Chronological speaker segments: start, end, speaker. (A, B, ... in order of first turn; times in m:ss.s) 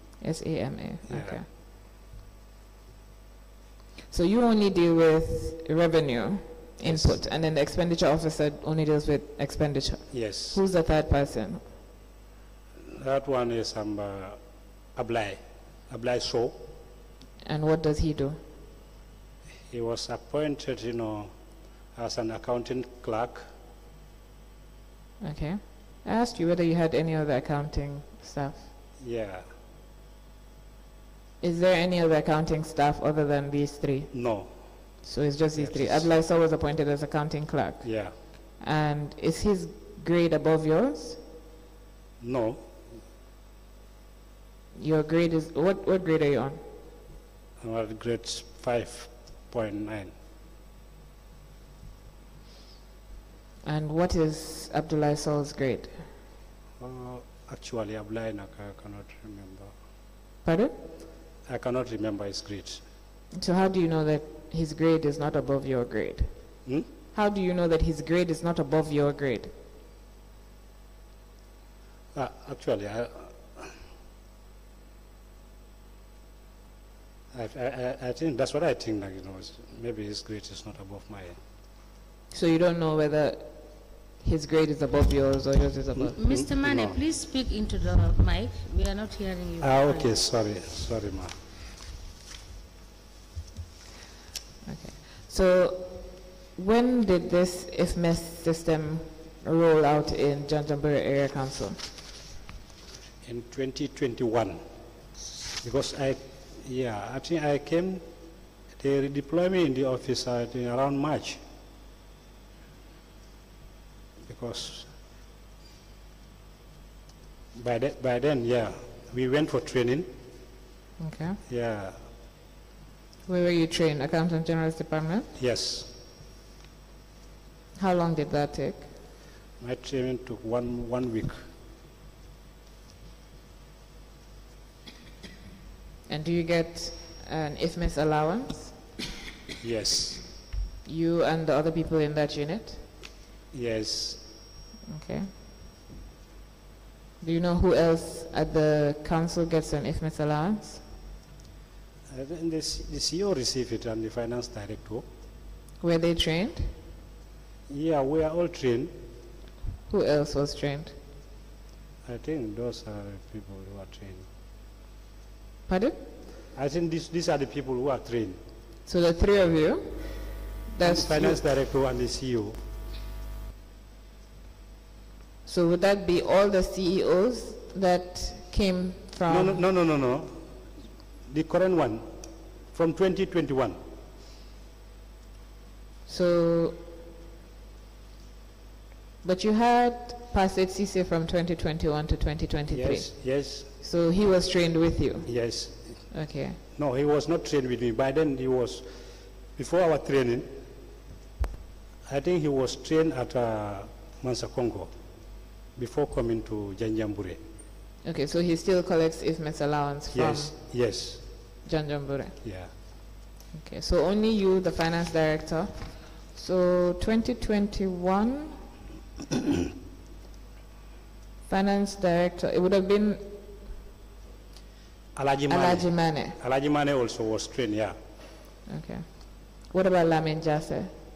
0:00.2-0:01.4 A
0:01.1-0:01.4 B
0:04.1-0:11.6 A
0:06.8-0:07.2 B
0:10.1-0:10.6 B
0:12.8-0:14.4 B
0:14.9-0:16.6 B
0:17.4-0:18.4 A
0:19.7-0:21.3 B
0:21.9-0:23.5 B
0:25.2-0:28.7 A
0:29.0-0:29.4 B
0:31.4-0:34.1 A
0:34.1-0:34.5 B
0:35.0-0:38.0 A
0:35.6-0:36.1 B
0:37.8-0:38.1 B
0:38.6-0:41.2 A
0:42.2-0:42.6 B
0:44.8-0:46.6 A
0:47.6-0:50.1 B
0:53.6-0:56.1 A
0:56.8-0:59.7 B
1:00.4-1:00.8 A
1:01.4-1:02.8 B
1:03.3-1:06.3 A
1:07.1-1:09.5 A
1:12.1-1:13.8 B
1:17.3-1:21.4 B
1:22.3-1:26.2 A
1:26.0-1:27.0 B
1:26.2-1:30.2 C
1:29.6-1:31.4 B
1:34.7-1:41.8 A
1:43.2-1:44.6 B
1:45.6-1:48.0 B
1:48.8-1:51.4 B
1:54.2-1:54.9 B
1:57.5-2:00.1 B
2:01.0-2:01.4 A
2:01.5-2:02.0 B
2:03.3-2:05.3 A
2:05.4-2:05.9 B
2:07.8-2:08.9 A
2:09.6-2:11.4 B
2:16.1-2:18.8 A
2:19.6-2:20.3 B
2:20.8-2:22.8 A
2:23.5-2:24.2 B
2:24.9-2:25.3 A
2:27.2-2:30.8 A
2:32.1-2:35.0 B
2:35.8-2:36.7 A
2:37.7-2:38.9 B
2:39.9-2:40.9 A
2:42.0-2:44.3 B
2:45.7-2:46.0 A
2:46.5-2:48.4 B
2:48.9-2:51.4 A
2:50.8-2:52.6 B
2:55.4-2:59.6 A
2:59.3-3:00.5 B
3:01.3-3:02.1 B
3:02.7-3:03.8 B
3:06.1-3:06.8 A
3:09.2-3:15.3 A
3:12.7-3:13.7 B
3:15.2-3:16.1 B
3:16.1-3:16.6 A
3:16.7-3:20.6 B
3:22.0-3:24.9 B
3:25.8-3:27.4 B
3:28.0-3:30.5 A
3:30.1-3:31.2 B
3:31.6-3:32.4 A
3:32.4-3:32.7 B
3:33.6-3:38.6 A
3:41.5-3:43.4 A
3:45.1-3:48.0 B
3:45.5-3:46.4 A
3:48.7-3:50.9 A